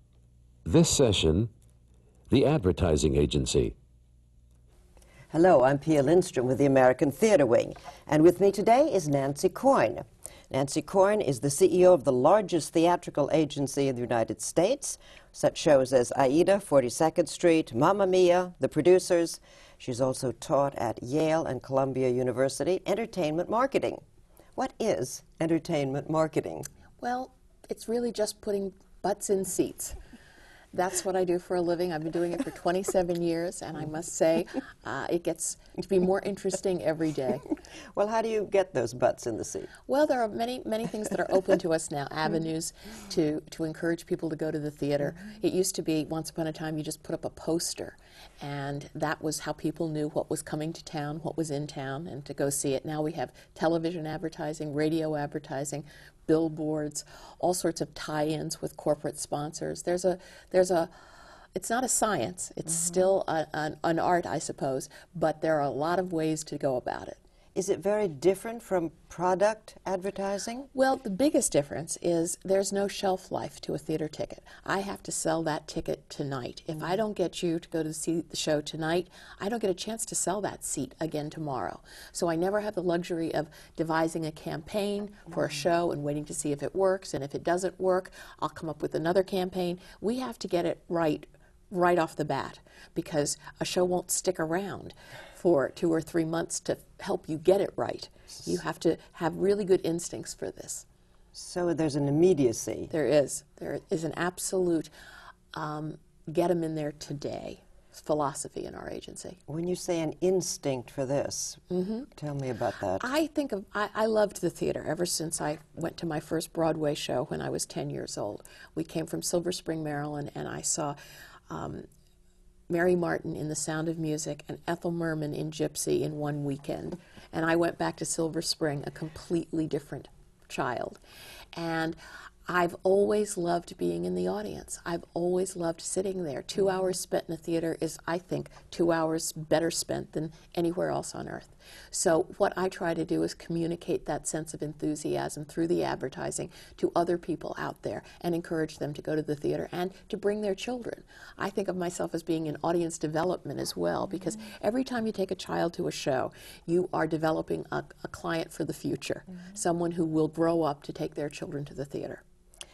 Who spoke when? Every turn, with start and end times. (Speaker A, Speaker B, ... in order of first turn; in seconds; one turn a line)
Speaker A: 0.7-1.5
Speaker A: 2.3-3.7
Speaker B: 5.3-24.0
Speaker B: 24.6-26.7
Speaker C: 27.0-29.9
Speaker C: 30.7-37.5
Speaker B: 37.9-39.7
Speaker C: 39.9-60.9
Speaker C: 61.5-67.2
Speaker B: 67.5-70.7
Speaker C: 70.7-100.8
Speaker B: 101.3-102.9
Speaker C: 102.9-104.9
Speaker C: 105.5-109.4
Speaker B: 109.5-111.6
Speaker C: 111.7-112.1
Speaker B: 112.1-113.0
Speaker C: 113.0-121.0
Speaker C: 121.5-121.8
Speaker C: 122.7-131.0
Speaker C: 131.5-131.9
Speaker C: 132.5-162.2